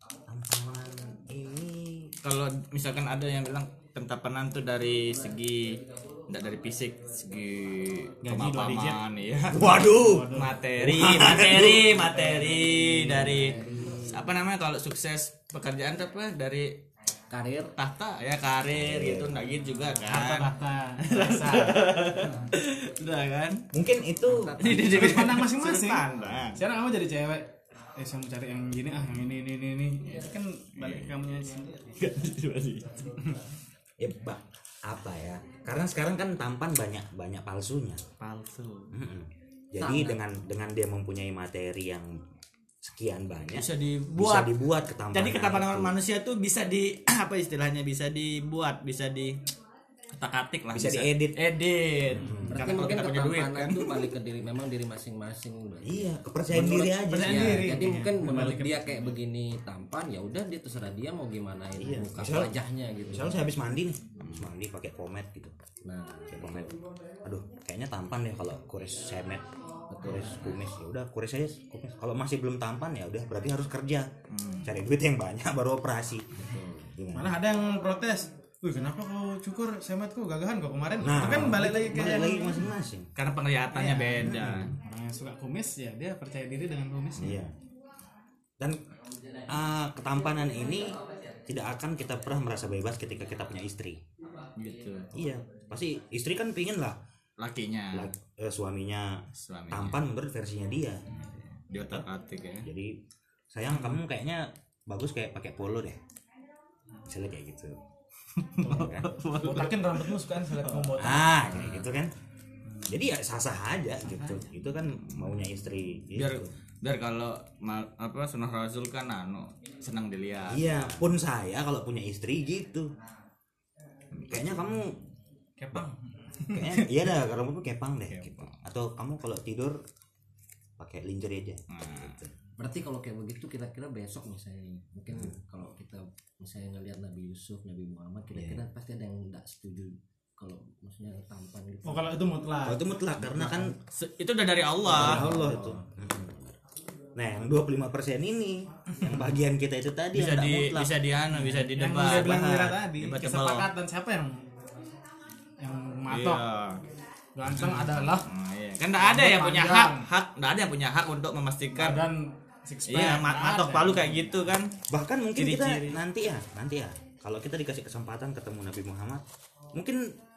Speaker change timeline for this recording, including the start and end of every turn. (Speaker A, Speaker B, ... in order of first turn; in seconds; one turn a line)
Speaker A: 0.3-2.1
Speaker B: 2.2-16.7
Speaker C: 8.2-9.0
Speaker A: 9.5-12.0
Speaker C: 9.6-10.6
Speaker C: 11.9-12.7
Speaker D: 13.1-14.2
Speaker D: 17.3-17.7
Speaker B: 17.7-23.6
Speaker A: 18.7-19.4
Speaker C: 20.0-22.4
Speaker A: 23.7-24.7
Speaker D: 24.2-25.2
Speaker B: 24.6-26.6
Speaker C: 24.7-32.0
Speaker B: 30.8-31.1
Speaker B: 31.9-33.4
Speaker A: 34.0-38.0
Speaker B: 38.2-38.9
Speaker A: 38.9-42.1
Speaker D: 39.8-40.2
Speaker A: 42.8-46.0
Speaker B: 43.5-44.5
Speaker B: 45.1-49.4
Speaker B: 50.1-54.1
Speaker A: 50.7-51.4
Speaker A: 52.1-52.5
Speaker D: 52.4-63.5
Speaker A: 55.8-57.8
Speaker C: 57.0-59.1
Speaker A: 61.8-62.5
Speaker A: 63.1-65.5
Speaker B: 64.2-64.5
Speaker D: 65.8-66.7
Speaker A: 66.3-69.5
Speaker D: 69.9-70.5
Speaker A: 70.0-74.1
Speaker B: 74.3-74.8
Speaker A: 74.6-77.3
Speaker D: 76.4-76.9
Speaker C: 77.1-82.7
Speaker A: 81.0-83.1
Speaker B: 83.1-84.7
Speaker C: 83.7-87.4
Speaker A: 84.2-84.7
Speaker A: 87.2-87.5
Speaker A: 89.5-94.0
Speaker B: 94.5-95.1
Speaker A: 95.1-97.0
Speaker B: 97.4-98.1
Speaker A: 97.9-101.0
Speaker B: 99.3-100.0
Speaker B: 101.1-102.7
Speaker A: 102.6-103.0
Speaker A: 103.5-106.0
Speaker A: 107.1-107.8
Speaker B: 108.4-111.8
Speaker A: 108.6-109.1
Speaker C: 108.7-111.5
Speaker A: 111.0-112.1
Speaker A: 112.9-116.5
Speaker B: 116.1-121.1
Speaker A: 120.5-122.9
Speaker B: 124.1-124.6
Speaker A: 124.3-125.0
Speaker C: 125.6-126.9
Speaker A: 126.5-129.8
Speaker B: 128.1-128.5
Speaker A: 130.8-132.3
Speaker B: 131.7-132.2
Speaker D: 132.6-142.3
Speaker A: 135.1-135.4
Speaker A: 138.3-138.6
Speaker C: 141.8-143.7
Speaker A: 142.6-143.8
Speaker B: 143.9-145.8
Speaker C: 144.8-145.7
Speaker A: 144.9-146.5
Speaker A: 147.1-150.9
Speaker B: 150.1-153.7
Speaker C: 151.3-154.4
Speaker C: 155.6-156.4
Speaker B: 156.1-156.8
Speaker C: 157.3-158.3
Speaker A: 157.5-157.9
Speaker B: 157.6-162.0
Speaker C: 159.0-160.1
Speaker C: 161.7-164.3
Speaker B: 162.9-164.7
Speaker A: 164.9-169.2
Speaker B: 165.3-166.0
Speaker A: 169.7-170.0